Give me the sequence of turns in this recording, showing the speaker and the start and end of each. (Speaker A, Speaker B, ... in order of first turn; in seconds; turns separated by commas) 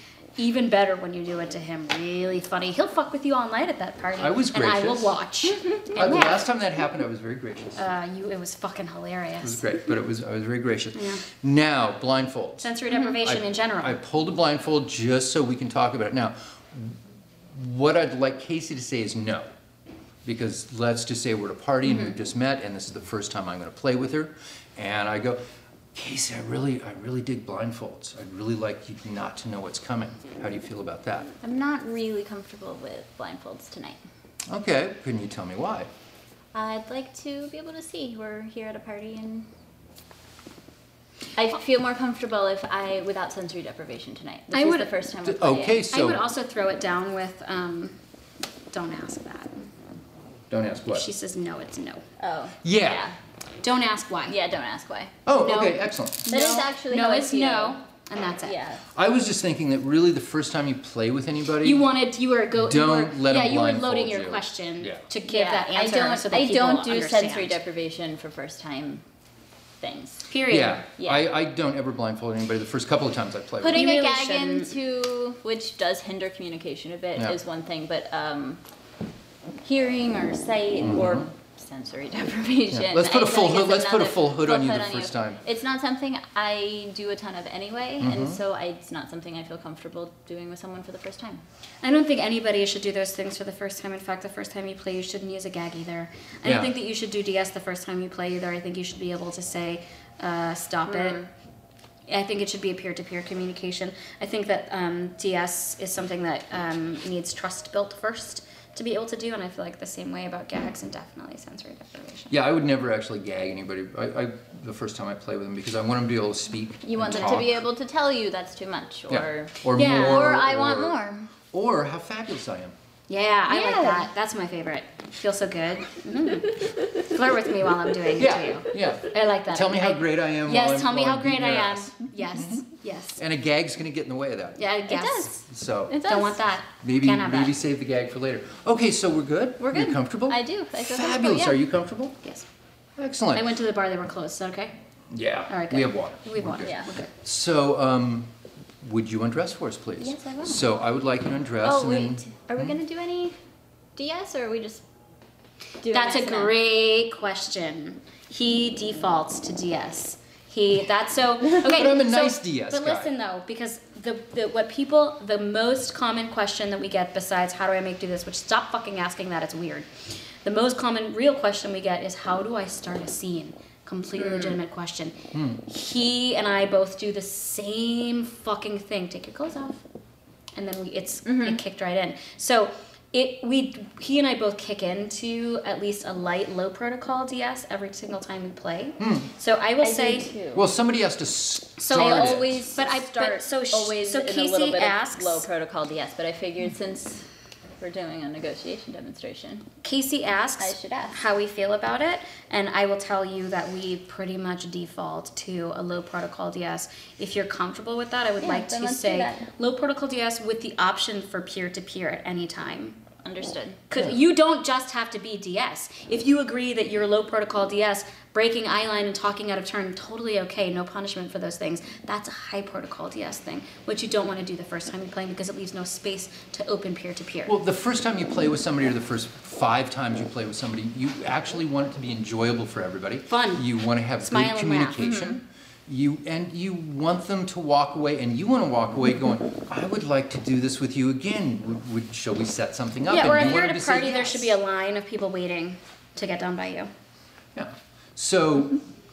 Speaker A: 0.4-6.3, Speaker B: 4.2-5.1, Speaker C: 5.9-6.3, Speaker B: 5.9-7.8, Speaker A: 7.8-9.6, Speaker B: 9.4-12.7, Speaker A: 10.9-11.2, Speaker A: 12.6-14.0, Speaker B: 13.2-17.0, Speaker B: 17.5-19.5, Speaker B: 20.2-25.4, Speaker C: 21.9-22.1, Speaker B: 25.9-31.3, Speaker C: 31.4-34.0, Speaker B: 34.5-35.9, Speaker C: 36.5-39.5, Speaker C: 41.4-45.9, Speaker A: 44.5-44.9, Speaker B: 45.2-46.2, Speaker A: 45.9-48.0, Speaker A: 48.7-49.7, Speaker B: 50.5-51.1, Speaker A: 50.9-52.0, Speaker C: 52.2-53.1, Speaker B: 52.6-53.0, Speaker A: 53.6-54.3, Speaker C: 54.3-55.1, Speaker B: 55.2-56.4, Speaker A: 55.3-58.6, Speaker C: 56.3-57.8, Speaker C: 58.4-58.8, Speaker B: 58.9-61.9, Speaker A: 61.6-67.6, Speaker B: 62.5-65.0, Speaker C: 65.3-69.0, Speaker C: 69.8-70.3, Speaker A: 70.3-70.8, Speaker B: 70.5-73.9, Speaker C: 71.0-71.3, Speaker C: 73.6-78.6, Speaker A: 73.6-74.7, Speaker C: 79.6-91.4, Speaker B: 80.8-81.3, Speaker B: 82.7-85.4, Speaker B: 88.0-88.4, Speaker A: 91.8-101.2, Speaker B: 96.4-96.7, Speaker C: 100.9-101.3, Speaker A: 102.1-112.3, Speaker B: 112.3-117.6, Speaker C: 116.8-121.3, Speaker B: 119.1-122.7, Speaker A: 119.7-120.3, Speaker A: 123.1-133.2, Speaker C: 123.5-124.1, Speaker B: 128.2-132.7, Speaker B: 133.2-134.6, Speaker A: 134.6-135.4, Speaker C: 134.9-135.3, Speaker B: 135.4-136.0, Speaker C: 135.9-136.4, Speaker A: 136.0-137.6, Speaker B: 136.8-142.2, Speaker C: 139.6-141.6, Speaker B: 143.0-143.5, Speaker A: 143.3-144.7, Speaker B: 145.1-148.3, Speaker A: 145.5-147.1, Speaker C: 146.6-146.9, Speaker B: 148.8-152.8, Speaker C: 150.0-150.6, Speaker C: 151.6-153.3, Speaker C: 153.9-154.8, Speaker C: 155.8-156.5, Speaker A: 155.9-169.9, Speaker B: 161.6-163.1, Speaker A: 170.4-179.8, Speaker C: 174.2-174.6, Speaker B: 175.3-175.6, Speaker A: 180.5-190.3, Speaker C: 181.2-181.6, Speaker B: 189.0-189.3, Speaker C: 189.8-190.7, Speaker B: 190.5-192.6, Speaker A: 191.8-195.4, Speaker C: 191.9-197.2, Speaker C: 197.8-199.7, Speaker A: 199.8-213.0, Speaker C: 200.6-201.2, Speaker C: 208.4-209.4, Speaker C: 213.2-213.8, Speaker A: 213.9-227.5, Speaker B: 227.4-244.6, Speaker A: 233.3-233.6, Speaker A: 234.2-235.0, Speaker C: 235.0-235.4, Speaker A: 243.1-246.9, Speaker B: 247.5-248.8